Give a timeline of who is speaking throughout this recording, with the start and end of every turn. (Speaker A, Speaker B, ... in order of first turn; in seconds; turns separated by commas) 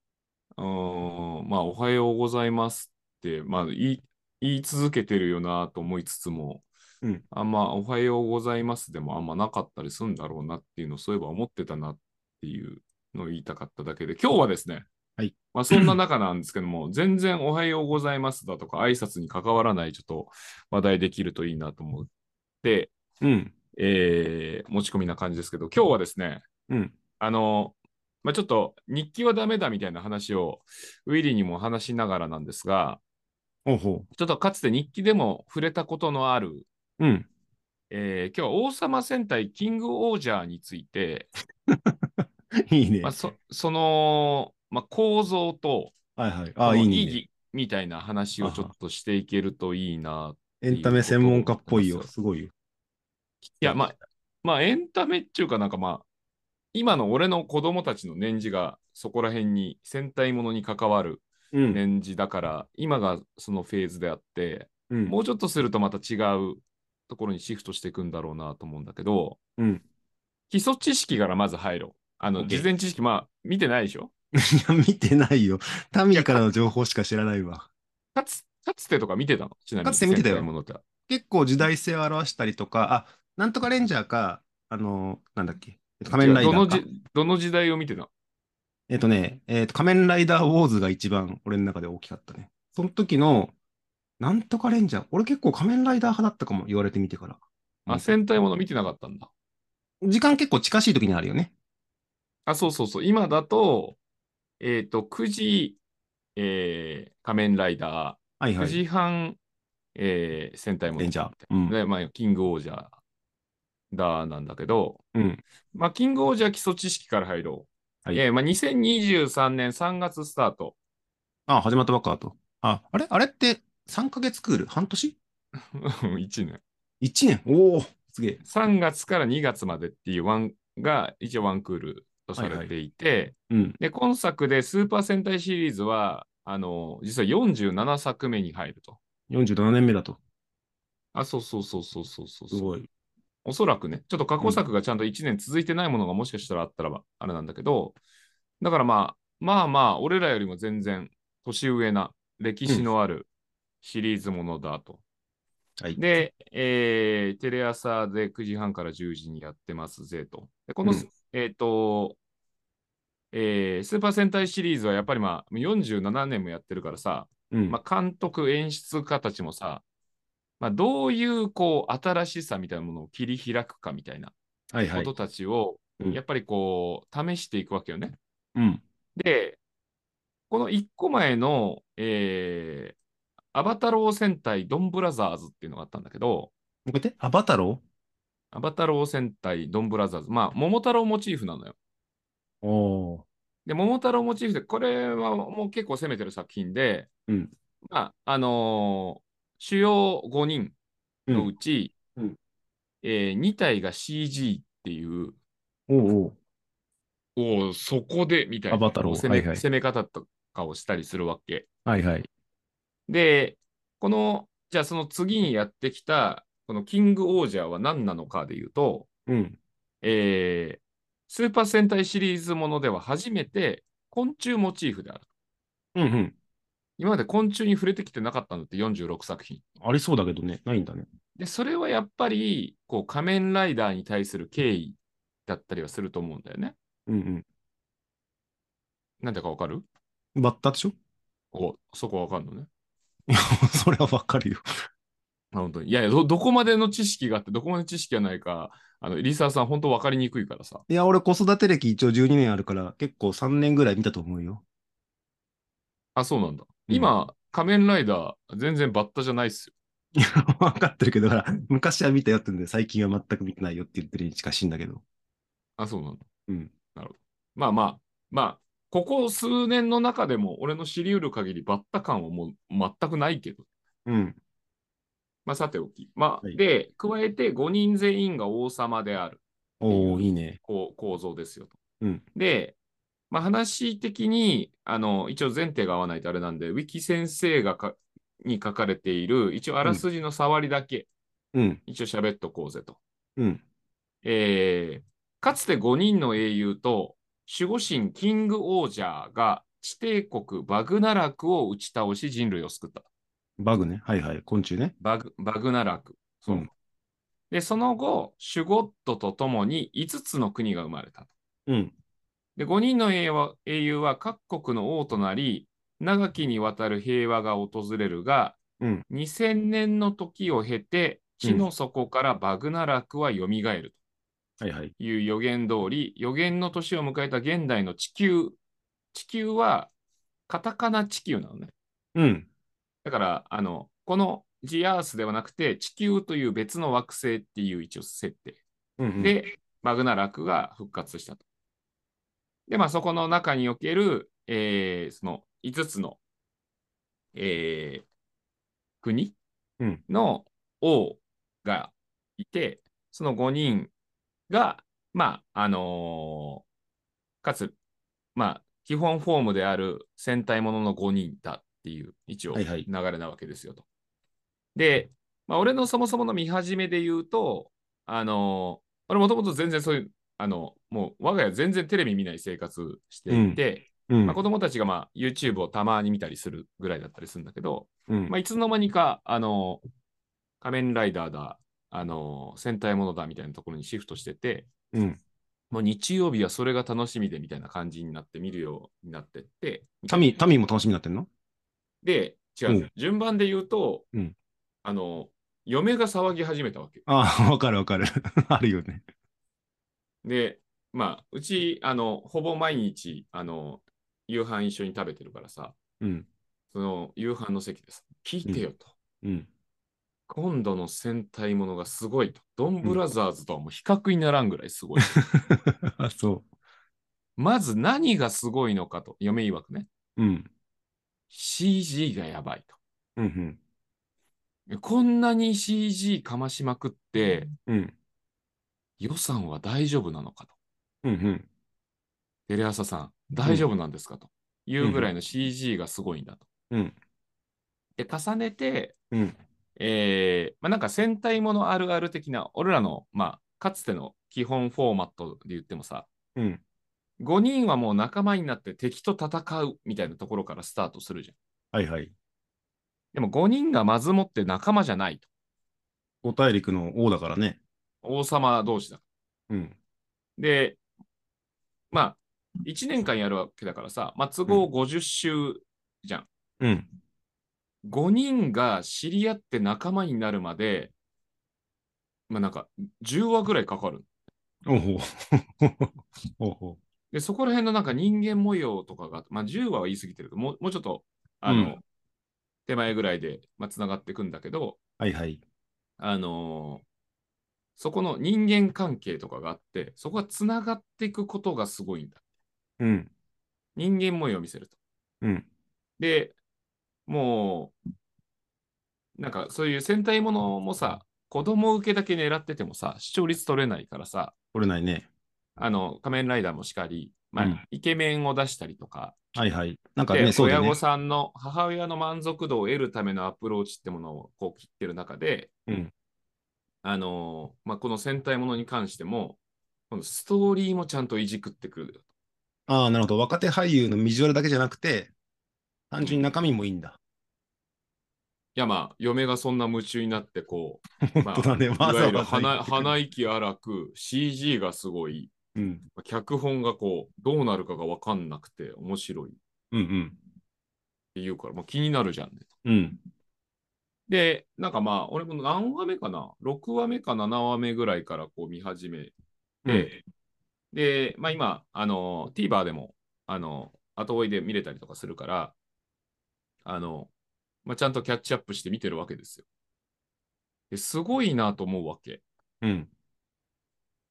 Speaker A: 0.6-6.7, Speaker A: 7.3-14.9, Speaker B: 15.2-15.9, Speaker A: 15.5-22.1, Speaker A: 22.6-22.9, Speaker B: 23.2-23.5, Speaker A: 23.8-26.4, Speaker B: 26.7-26.9, Speaker A: 27.2-33.0, Speaker B: 33.7-34.1, Speaker A: 34.1-36.7, Speaker B: 37.0-37.3, Speaker A: 37.9-41.3, Speaker B: 41.7-43.2, Speaker A: 43.0-45.9, Speaker B: 46.2-47.2, Speaker A: 46.6-52.1, Speaker B: 48.4-48.7, Speaker B: 50.6-52.5, Speaker B: 53.5-54.0, Speaker A: 53.6-56.0, Speaker A: 56.7-69.4, Speaker B: 61.5-61.8, Speaker B: 64.9-65.2, Speaker B: 69.6-69.8, Speaker A: 70.5-74.1, Speaker B: 72.4-72.7, Speaker B: 74.3-77.7, Speaker A: 76.1-76.4, Speaker A: 78.2-80.8, Speaker B: 79.8-80.5, Speaker B: 81.1-86.8, Speaker A: 86.1-88.1, Speaker B: 88.9-93.5, Speaker B: 94.2-98.1, Speaker A: 97.9-99.3, Speaker B: 100.0-101.5, Speaker A: 102.5-104.0, Speaker A: 104.6-105.8, Speaker A: 106.4-109.4, Speaker B: 108.4-108.8, Speaker A: 110.0-113.0, Speaker B: 111.0-111.8, Speaker A: 113.9-115.0, Speaker B: 115.1-115.4, Speaker A: 115.7-120.8, Speaker B: 121.5-125.2, Speaker A: 125.8-126.6, Speaker B: 127.0-128.4, Speaker A: 128.4-139.0, Speaker B: 132.4-132.7, Speaker B: 133.5-133.8, Speaker B: 139.3-140.2, Speaker A: 141.1-142.7, Speaker B: 142.5-142.9, Speaker A: 143.4-148.0, Speaker A: 148.6-153.3, Speaker A: 153.8-155.0, Speaker A: 156.0-162.2, Speaker A: 163.3-169.8, Speaker B: 167.5-167.8, Speaker A: 170.6-174.3, Speaker B: 174.7-175.1, Speaker A: 174.9-178.2, Speaker B: 178.6-178.8, Speaker A: 179.2-179.6, Speaker A: 180.5-183.0, Speaker A: 183.5-186.5, Speaker B: 186.9-187.8, Speaker A: 188.5-191.8, Speaker B: 192.6-193.2, Speaker A: 193.7-197.1, Speaker A: 197.9-200.8, Speaker A: 201.3-201.9, Speaker A: 203.0-205.4, Speaker B: 205.9-206.4, Speaker A: 207.4-211.7, Speaker B: 208.7-209.6, Speaker B: 211.9-212.3, Speaker A: 213.1-219.1, Speaker B: 219.3-219.6, Speaker A: 220.0-225.3, Speaker B: 225.9-226.3, Speaker A: 227.0-229.6, Speaker B: 229.8-231.1, Speaker A: 231.4-236.8, Speaker B: 237.1-237.4, Speaker A: 239.2-239.8, Speaker B: 240.3-240.9, Speaker A: 241.5-242.7, Speaker B: 243.3-244.6, Speaker A: 245.5-250.8, Speaker B: 250.9-254.6, Speaker A: 256.2-259.7, Speaker B: 260.2-265.0, Speaker A: 265.8-266.2, Speaker B: 266.5-266.7, Speaker A: 266.9-273.7, Speaker B: 274.1-274.4, Speaker A: 275.4-281.8, Speaker B: 279.8-280.6, Speaker A: 282.4-282.8, Speaker A: 283.3-291.1, Speaker B: 291.5-291.8, Speaker A: 291.9-293.0, Speaker B: 293.4-293.6, Speaker A: 294.2-303.1, Speaker B: 303.6-304.9, Speaker A: 305.0-306.7, Speaker A: 307.5-311.3, Speaker B: 311.7-311.9, Speaker A: 312.6-324.0, Speaker B: 318.8-319.1, Speaker B: 324.6-324.9, Speaker A: 325.0-328.6, Speaker A: 329.1-329.9, Speaker A: 330.5-331.7, Speaker B: 332.1-332.5, Speaker A: 333.0-338.6, Speaker B: 339.0-339.4, Speaker A: 339.2-341.4, Speaker A: 342.7-346.2, Speaker A: 347.4-348.1, Speaker A: 349.0-349.4, Speaker A: 350.1-353.9, Speaker A: 354.5-356.6, Speaker A: 357.4-357.8, Speaker A: 358.4-363.9, Speaker B: 362.5-362.9, Speaker A: 364.8-379.8, Speaker B: 373.3-374.4, Speaker A: 380.6-384.7, Speaker B: 384.9-385.2, Speaker A: 385.7-390.4, Speaker B: 390.1-391.3, Speaker A: 392.0-394.1, Speaker A: 394.8-397.0, Speaker B: 397.1-399.0, Speaker A: 400.2-405.8, Speaker B: 406.0-406.3, Speaker A: 406.7-408.9, Speaker B: 409.2-409.5, Speaker A: 410.3-415.1, Speaker B: 415.3-416.4, Speaker A: 417.4-419.9, Speaker B: 420.2-420.5, Speaker A: 421.3-422.8, Speaker B: 423.2-423.6, Speaker A: 424.7-427.5, Speaker B: 427.7-427.9, Speaker A: 429.0-430.5, Speaker B: 431.0-431.5, Speaker A: 432.5-436.4, Speaker B: 434.8-435.1, Speaker A: 438.0-438.9, Speaker A: 439.8-446.1, Speaker B: 446.4-446.6, Speaker A: 447.2-451.4, Speaker B: 451.7-452.1, Speaker A: 453.1-455.3, Speaker B: 456.2-457.6, Speaker A: 458.0-459.0, Speaker B: 459.5-459.8, Speaker A: 460.4-460.8, Speaker A: 461.9-466.3, Speaker B: 466.6-466.9, Speaker A: 467.8-470.9, Speaker A: 472.3-474.1, Speaker B: 474.7-476.8, Speaker A: 477.1-481.8, Speaker B: 481.5-481.8, Speaker A: 482.7-484.8, Speaker B: 485.0-485.4, Speaker A: 486.0-486.9, Speaker A: 487.8-492.2, Speaker B: 492.8-493.1, Speaker A: 493.8-494.8, Speaker A: 496.0-496.4, Speaker A: 497.1-497.8, Speaker A: 499.2-504.3, Speaker B: 504.5-505.1, Speaker A: 505.6-509.2, Speaker B: 509.4-510.8, Speaker A: 510.1-515.5, Speaker B: 515.7-515.9, Speaker A: 516.8-519.4, Speaker A: 519.9-522.0, Speaker B: 522.7-525.1, Speaker B: 525.9-527.0, Speaker A: 526.0-526.3, Speaker A: 528.6-535.3, Speaker B: 531.1-532.9, Speaker B: 535.5-535.8, Speaker A: 536.0-539.4, Speaker B: 539.7-540.2, Speaker A: 541.1-542.5, Speaker B: 542.6-543.0, Speaker A: 544.1-549.1, Speaker B: 549.7-549.9, Speaker A: 549.7-550.0, Speaker A: 550.7-555.5, Speaker A: 556.6-557.1, Speaker A: 557.6-559.5, Speaker A: 560.7-562.2, Speaker B: 562.6-562.9